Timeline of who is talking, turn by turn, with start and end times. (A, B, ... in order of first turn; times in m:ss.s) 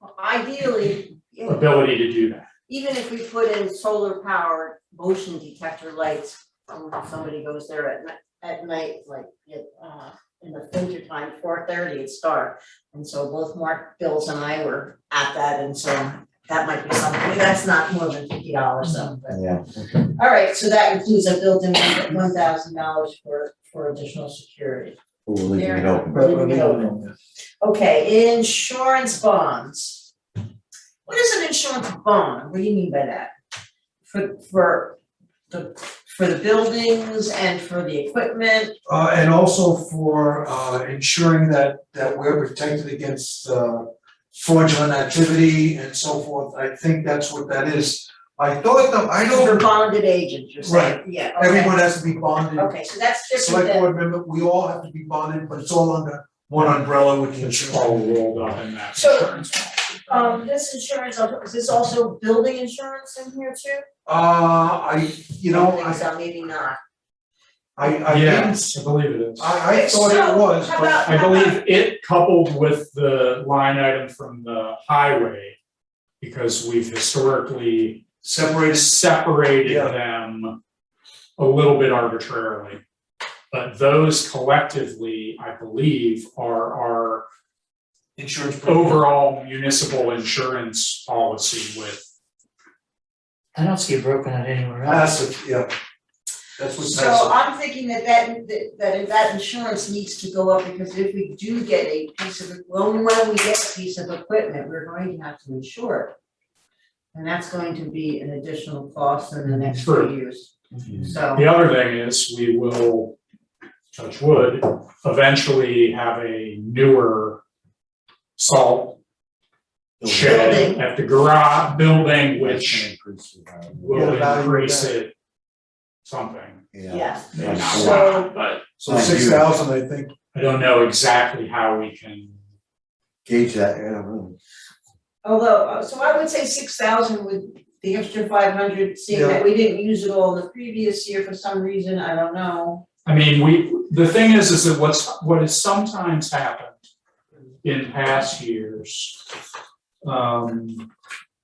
0:00.2-0:01.7 A
0:01.4-0:02.5 B
0:02.7-0:19.4 A
0:18.8-0:19.2 C
0:19.3-0:19.6 D
0:19.9-0:25.0 A
0:25.2-0:26.5 D
0:25.5-0:27.0 A
0:26.1-0:27.1 E
0:27.6-0:30.1 A
0:31.0-0:33.3 A
0:34.0-0:35.0 A
0:35.5-0:38.7 A
0:38.8-0:49.7 E
0:49.2-0:51.8 A
0:50.6-0:52.8 E
0:52.6-0:53.9 A
0:53.3-0:58.0 E
0:57.4-0:59.9 B
0:58.9-0:59.3 A
1:00.0-1:03.8 A
1:04.0-1:06.0 E
1:05.5-1:06.8 A
1:07.8-1:08.8 E
1:08.0-1:09.6 B
1:09.4-1:11.1 E
1:09.7-1:11.6 A
1:11.0-1:15.6 B
1:16.2-1:20.6 B
1:18.2-1:18.9 E
1:19.6-1:19.9 E
1:21.4-1:22.8 B
1:23.5-1:27.2 B
1:28.2-1:29.0 E
1:28.6-1:32.0 B
1:33.5-1:35.1 C
1:34.9-1:35.7 E
1:36.6-1:37.3 E
1:36.8-1:46.2 A
1:47.1-1:51.5 A
1:49.7-1:50.1 B
1:51.0-1:53.2 B
1:53.9-1:57.4 B
1:58.4-1:59.0 B
2:00.0-2:00.7 D
2:00.0-2:02.9 B
2:00.2-2:00.8 A
2:01.8-2:04.2 D
2:03.7-2:05.1 B
2:03.9-2:04.9 E
2:06.0-2:06.6 B
2:06.7-2:08.1 D
2:06.9-2:08.3 A
2:07.3-2:08.6 B
2:08.8-2:10.1 E
2:08.9-2:09.5 D
2:10.3-2:12.4 B
2:13.2-2:14.3 D
2:15.2-2:22.8 A
2:19.1-2:19.4 E
2:23.0-2:26.9 B
2:27.6-2:29.2 B
2:30.0-2:30.9 B